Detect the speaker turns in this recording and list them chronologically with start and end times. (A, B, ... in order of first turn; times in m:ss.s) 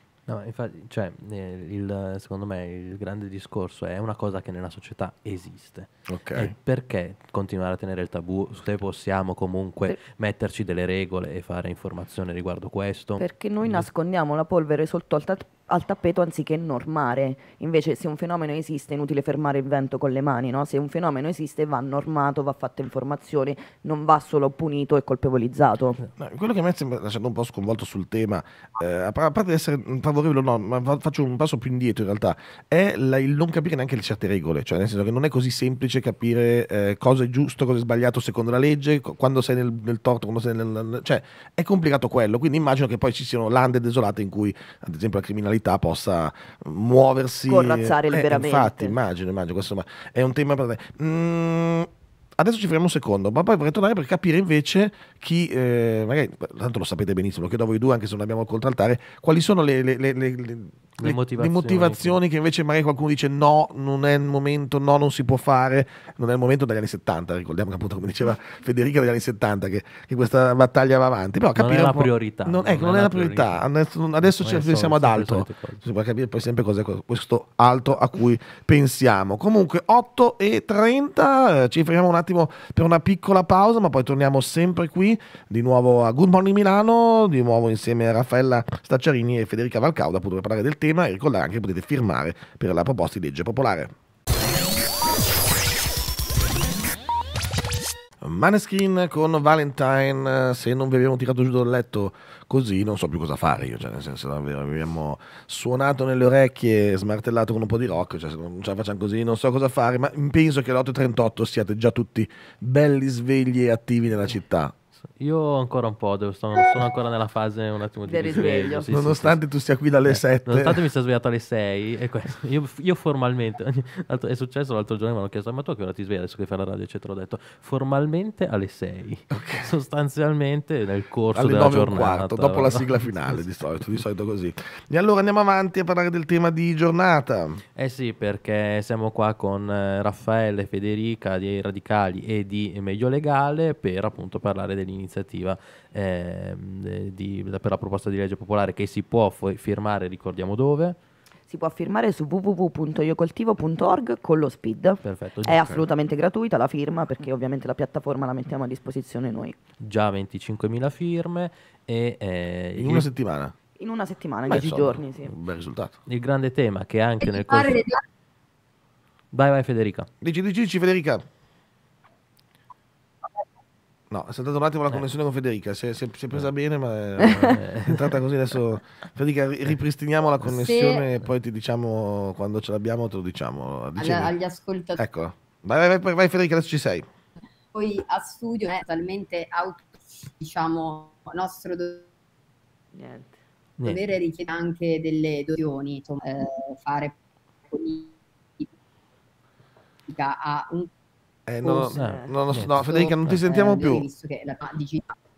0:00.3-0:13.9 A
0:06.1-0:06.5 B
0:13.2-0:26.0 C
0:26.2-1:33.9 B
0:47.5-0:49.0 C
1:01.0-1:02.2 A
1:11.6-1:13.6 A
1:14.3-1:15.8 A
1:38.2-1:54.7 B
1:55.2-1:59.4 A
1:58.0-1:58.9 C
1:58.9-2:00.8 B
2:00.1-2:13.4 A
2:09.3-2:09.7 B
2:11.3-2:17.6 B
2:17.7-2:31.0 A
2:31.5-2:39.6 C
2:35.0-2:35.7 A
2:39.8-2:43.1 A
2:42.8-2:43.5 B
2:43.8-2:45.3 C
2:44.5-2:46.0 B
2:46.1-2:47.8 A
2:47.2-2:48.0 D
2:49.3-2:50.1 A
2:50.2-2:51.2 B
2:54.1-3:04.3 B
2:57.2-2:58.1 A
3:00.4-3:01.0 D
3:04.0-3:05.0 D
3:05.0-3:07.1 B
3:07.7-3:12.1 D
3:12.9-3:13.4 C
3:13.8-3:17.2 D
3:17.7-3:18.7 D
3:20.1-3:20.9 D
3:21.5-3:24.0 B
3:21.6-3:22.1 D
3:22.0-3:23.4 A
3:22.0-3:22.3 C
3:22.8-3:25.1 D